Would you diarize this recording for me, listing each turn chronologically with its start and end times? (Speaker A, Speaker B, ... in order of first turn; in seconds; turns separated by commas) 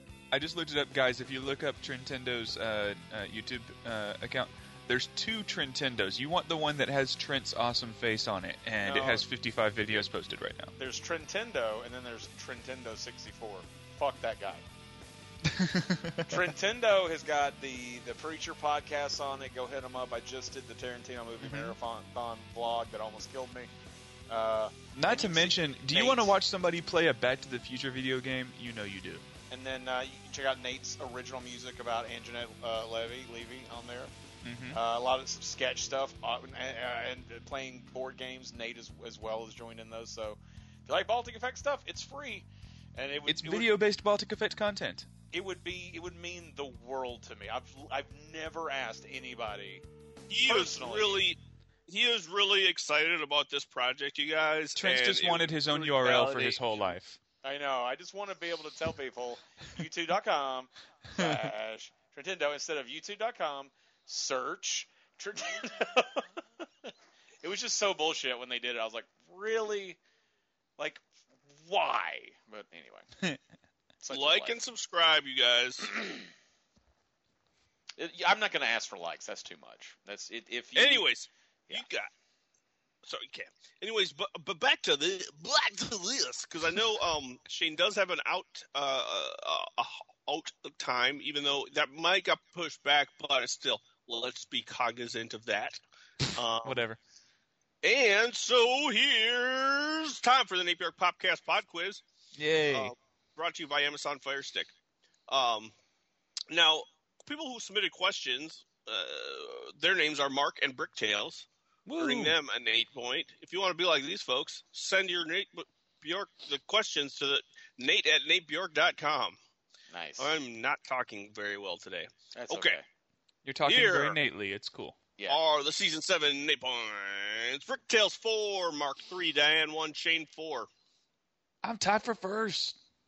Speaker A: 0.3-10.7, Speaker B: 8.8-9.3, Speaker B: 10.8-14.6, Speaker A: 15.4-16.5, Speaker B: 16.2-23.7, Speaker A: 21.4-21.8, Speaker B: 24.3-26.4, Speaker A: 24.9-29.2, Speaker B: 29.5-34.1, Speaker A: 34.4-34.8, Speaker B: 34.7-43.8, Speaker A: 43.3-45.1, Speaker B: 45.3-49.9, Speaker C: 50.3-56.6, Speaker B: 50.4-51.2, Speaker A: 54.8-57.2, Speaker B: 57.4-66.3, Speaker A: 61.2-61.5, Speaker B: 67.4-70.0, Speaker B: 70.8-73.1, Speaker B: 74.0-74.6, Speaker C: 74.1-75.9, Speaker B: 78.0-81.1, Speaker C: 80.8-82.1, Speaker C: 83.0-96.8, Speaker A: 96.6-97.0, Speaker C: 97.8-102.0, Speaker A: 102.3-102.9, Speaker C: 102.7-104.7, Speaker C: 105.3-105.7, Speaker C: 106.5-111.5, Speaker A: 111.9-112.3, Speaker C: 112.0-119.4, Speaker B: 119.9-120.3, Speaker C: 120.2-122.8, Speaker B: 122.3-122.8, Speaker A: 123.5-125.0, Speaker C: 123.7-124.2, Speaker C: 125.3-130.7, Speaker A: 131.6-132.8